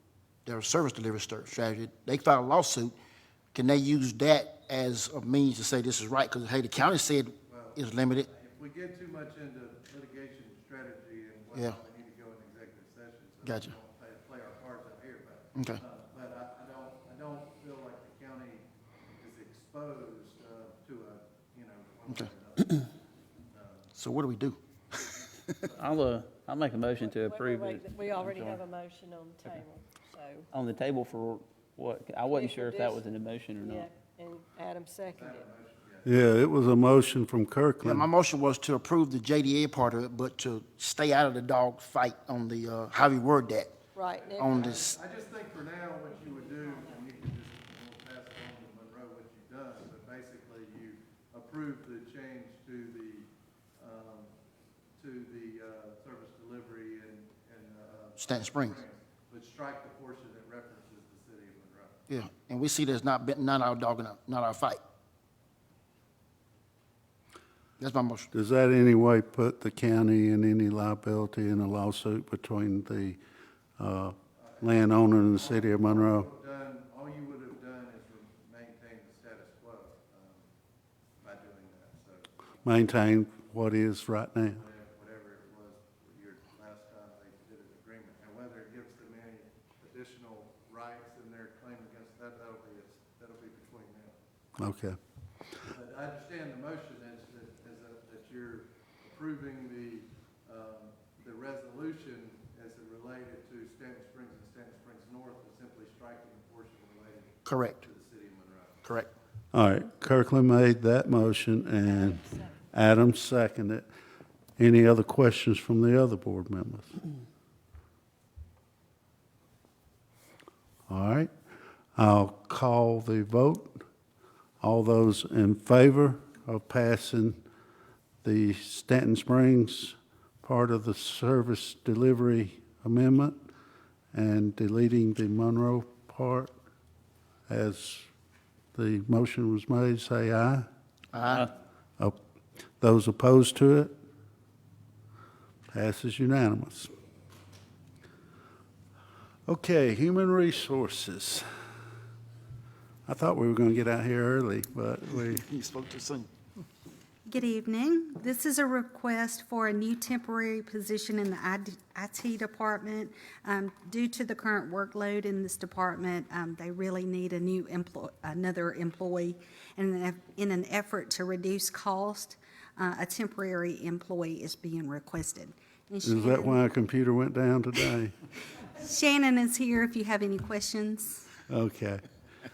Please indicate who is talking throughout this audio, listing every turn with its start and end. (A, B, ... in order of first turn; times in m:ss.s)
0:00.4-0:03.0 A
0:03.5-0:08.3 A
0:07.4-0:22.9 B
0:13.4-0:13.7 A
0:23.5-0:23.9 B
0:24.0-0:24.6 A
0:25.0-0:26.1 B
0:25.8-0:28.6 C
0:27.0-0:30.5 D
0:30.5-0:33.9 C
0:32.3-0:33.0 D
0:33.6-0:35.4 D
0:35.1-0:36.2 B
0:36.0-0:38.1 E
0:37.8-0:43.8 A
0:43.9-0:44.5 D
0:44.1-0:54.3 B
0:44.4-0:45.0 A
0:46.2-0:47.0 D
0:55.0-1:02.0 B
0:58.2-0:58.8 A
1:02.1-1:04.8 A
1:07.8-1:08.3 A
1:08.3-1:13.2 E
1:13.8-1:16.3 E
1:14.4-1:20.5 B
1:21.2-1:22.3 B
1:22.6-1:24.6 E
1:24.5-1:34.2 B
1:34.6-1:35.0 E
1:35.7-1:48.9 B
1:47.4-1:47.8 A
1:49.5-1:53.8 E
1:54.6-1:57.0 E
2:00.9-2:01.3 E
2:02.0-2:03.8 E
2:04.6-2:07.4 E
2:08.2-2:13.4 E
2:14.1-2:16.5 E
2:17.5-2:18.1 E
2:18.7-2:20.6 E
2:21.1-2:21.5 A
2:22.8-2:23.9 E
2:25.7-2:26.9 E
2:29.5-2:31.4 E
2:33.1-2:35.4 E
2:35.3-2:36.3 A
2:37.2-2:56.6 F
2:56.0-2:58.1 E
2:58.8-3:01.3 F
3:01.5-3:02.0 E